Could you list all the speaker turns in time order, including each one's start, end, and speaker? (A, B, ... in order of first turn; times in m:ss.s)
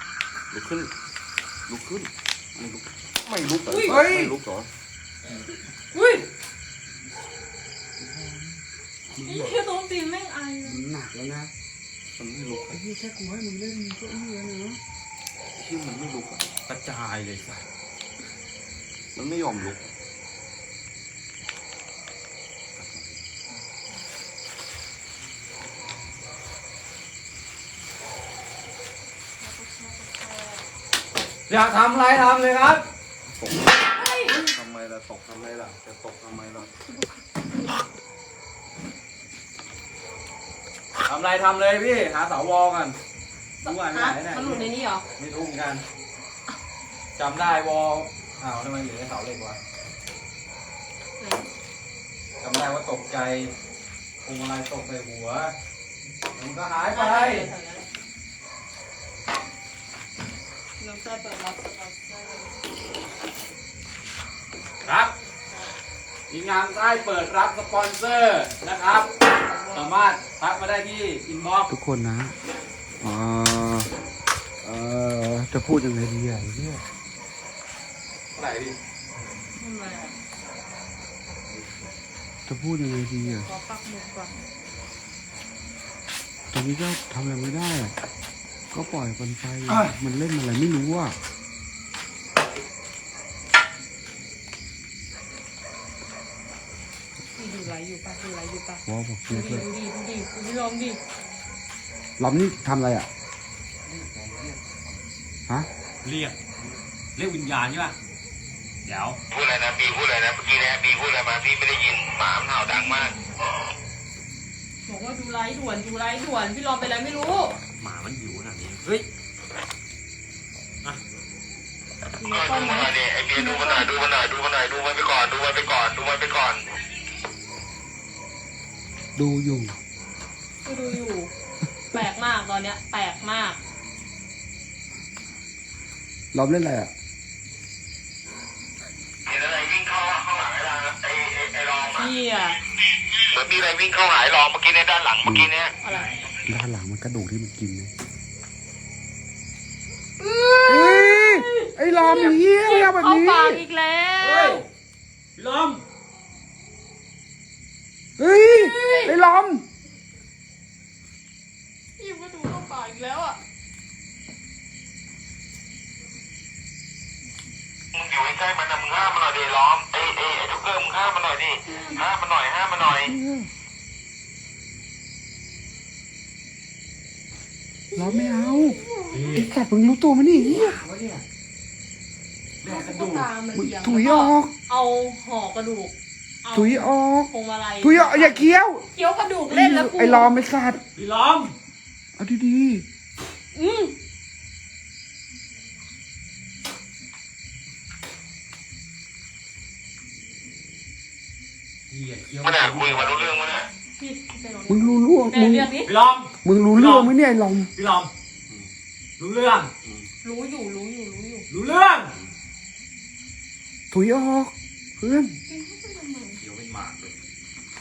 0:00.5-0:01.0 A
0:01.7-0:04.7 A
0:03.7-0:04.0 B
0:03.8-0:04.4 C
0:05.9-0:06.3 B
0:08.0-0:08.3 C
0:09.2-0:09.6 C
0:09.2-0:10.8 B
0:10.6-0:11.5 C
0:12.1-0:12.8 A
0:12.7-0:14.8 C
0:15.6-0:16.6 A
0:16.7-0:17.6 D
0:19.1-0:19.9 A
0:22.8-0:23.2 A
0:29.4-0:30.6 B
0:31.5-0:32.8 D
0:33.3-0:33.8 A
0:33.9-0:34.4 B
0:34.3-0:36.7 A
0:41.1-0:43.0 D
0:43.6-0:45.0 B
0:43.6-0:45.8 D
0:47.2-0:49.6 D
0:51.2-0:51.5 B
0:52.4-0:53.5 D
0:54.2-0:55.5 D
0:56.4-0:57.5 D
0:56.9-0:57.9 B
1:00.8-1:02.6 B
1:04.8-1:05.1 D
1:06.3-1:09.1 D
1:09.4-1:09.9 B
1:09.7-1:11.7 D
1:11.7-1:12.4 C
1:13.0-1:13.9 C
1:14.6-1:16.8 C
1:18.4-1:18.8 D
1:19.6-1:20.2 B
1:22.5-1:23.5 C
1:23.2-1:24.4 B
1:26.5-1:28.0 C
1:28.7-1:31.2 C
1:29.7-1:29.9 D
1:37.4-1:41.0 B
1:38.9-1:39.7 C
1:42.2-1:43.1 C
1:43.8-1:45.2 A
1:46.0-1:46.4 D
1:47.2-1:48.0 D
1:48.8-1:49.2 D
1:49.3-1:53.2 E
1:54.9-1:57.6 B
1:57.8-1:59.1 D
2:02.2-2:03.9 B
2:02.3-2:06.6 E
2:09.2-2:09.8 C
2:10.6-2:11.3 B
2:11.9-2:13.6 B
2:16.3-2:16.9 C
2:19.3-2:22.1 E
2:22.0-2:22.6 B
2:23.2-2:25.7 E
2:25.2-2:25.5 C
2:25.8-2:26.1 B
2:25.8-2:26.2 D
2:26.5-2:27.9 C
2:30.2-2:34.6 B
2:30.7-2:33.6 C
2:34.2-2:34.6 D
2:35.4-2:35.8 D
2:38.2-2:39.6 C
2:38.5-2:39.1 B
2:42.0-2:43.4 B
2:47.9-2:53.1 E
2:51.7-2:52.0 B
2:52.8-2:53.5 C
2:57.9-2:59.4 B
2:58.0-2:58.8 C
2:59.1-2:59.5 D
2:59.3-3:00.8 C
3:00.4-3:01.2 D
3:02.6-3:03.3 D
3:02.6-3:10.3 B
3:03.5-3:04.5 C
3:06.5-3:08.8 C
3:09.5-3:10.8 C
3:11.0-3:11.6 D
3:12.2-3:12.9 C
3:13.6-3:14.0 B
3:21.9-3:23.4 D
3:22.4-3:23.7 E
3:24.0-3:25.9 B
3:24.7-3:25.7 C
3:25.8-3:27.1 D
3:26.4-3:27.7 C
3:27.8-3:28.1 D
3:29.2-3:29.7 D
3:30.2-3:31.5 B
3:31.5-3:32.1 D
3:33.9-3:35.4 C
3:35.5-3:36.4 B
3:36.4-3:37.2 D